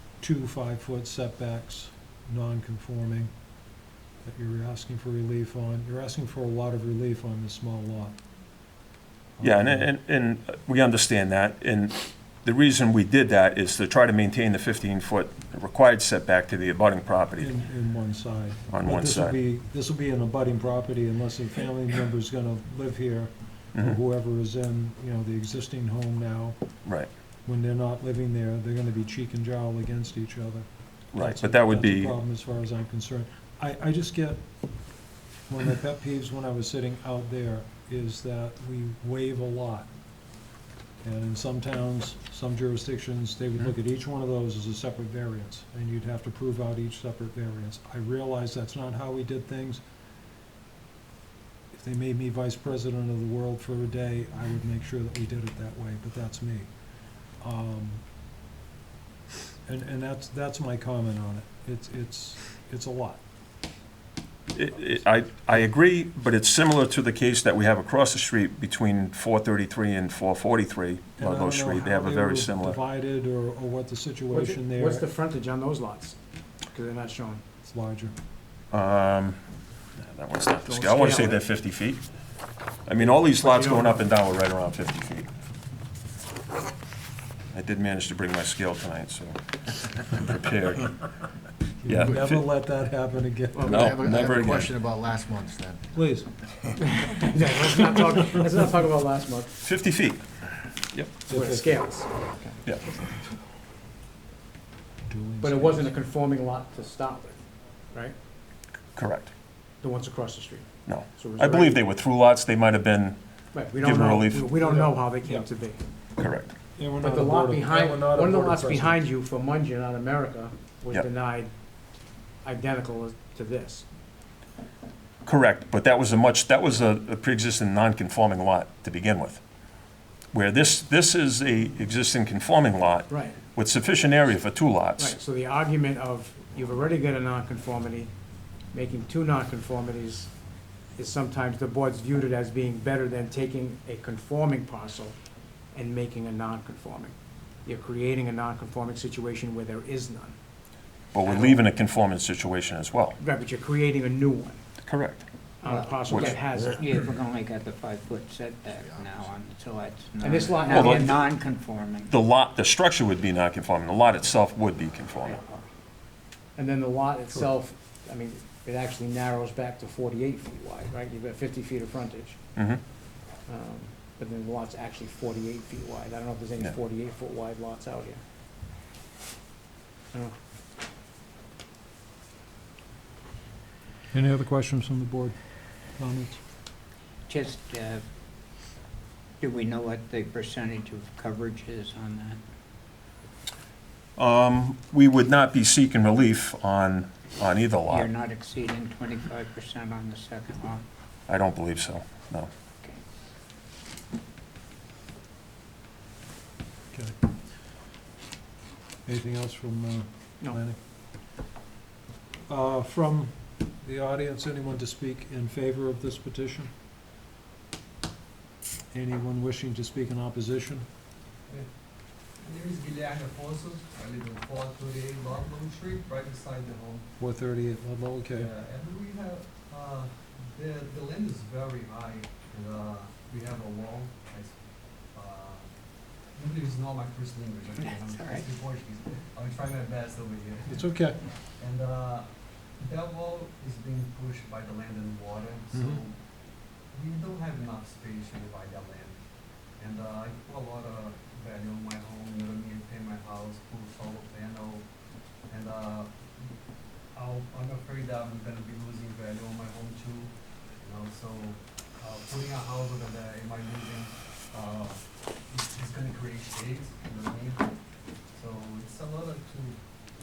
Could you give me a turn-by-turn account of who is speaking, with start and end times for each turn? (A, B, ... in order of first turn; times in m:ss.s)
0:00.2-0:03.3 A
0:04.2-0:08.2 A
0:09.4-0:09.9 A
0:09.4-0:17.6 B
0:17.4-0:26.6 A
0:18.7-0:19.4 B
0:27.4-0:34.4 A
0:31.1-0:32.2 B
0:35.5-0:39.9 A
0:41.0-0:49.8 A
0:51.7-0:56.7 A
0:57.4-0:58.0 A
0:59.6-1:03.2 A
1:04.5-1:12.8 B
1:11.2-1:15.1 A
1:14.3-1:16.2 C
1:16.7-1:17.4 C
1:17.6-1:18.1 A
1:18.7-1:19.4 B
1:20.0-1:22.0 B
1:20.7-1:21.4 C
1:22.8-1:25.3 B
1:23.0-1:24.0 C
1:27.5-1:31.1 B
1:31.8-1:34.0 A
1:31.8-1:32.4 B
1:33.5-1:33.9 C
1:33.6-1:34.8 B
1:33.7-1:35.9 D
1:35.9-1:36.3 A
1:36.8-1:39.5 C
1:39.6-1:40.2 B
1:41.2-1:42.6 C
1:41.3-1:41.7 A
1:45.0-1:45.9 A
1:45.4-1:47.4 C
1:49.0-1:49.3 B
1:49.8-1:51.8 C
1:50.8-1:53.2 B
1:53.5-1:55.8 C
1:53.7-1:54.5 B
1:54.6-1:55.4 A
1:56.2-1:56.5 B
1:56.8-1:59.0 A
1:57.0-2:01.5 C
2:02.4-2:03.8 C
2:05.2-2:09.4 B
2:10.3-2:15.2 B
2:13.1-2:13.4 C
2:15.0-2:18.1 C
2:18.7-2:20.3 C
2:20.9-2:25.2 C
2:25.7-2:30.4 C
2:31.1-2:33.2 B
2:31.2-2:31.6 C
2:33.2-2:34.6 C
2:34.8-2:35.3 B
2:35.6-2:37.0 C
2:36.0-2:36.4 B
2:36.1-2:42.1 E
2:38.8-2:39.4 D
2:40.2-2:41.2 C
2:40.7-2:41.1 B
2:42.1-2:45.4 B
2:46.6-2:52.4 C
2:52.6-2:52.8 B
2:53.5-2:58.2 C
3:04.1-3:05.4 A
3:06.0-3:06.4 A
3:07.3-3:08.0 E
3:09.4-3:12.4 E
3:14.2-3:18.1 B
3:17.9-3:20.8 E
3:21.3-3:22.5 B
3:29.0-3:30.8 A
3:32.5-3:36.7 A
3:38.9-3:40.8 A
3:42.4-3:47.1 F
3:47.2-3:48.5 A
3:48.4-3:54.6 F
3:55.1-3:55.7 F
3:56.3-4:06.2 F
3:57.8-3:58.5 E
4:00.7-4:01.2 A
4:06.9-4:09.2 F
4:09.8-4:14.8 F
4:15.5-4:16.4 F
4:17.1-4:27.7 F
4:28.3-4:29.8 F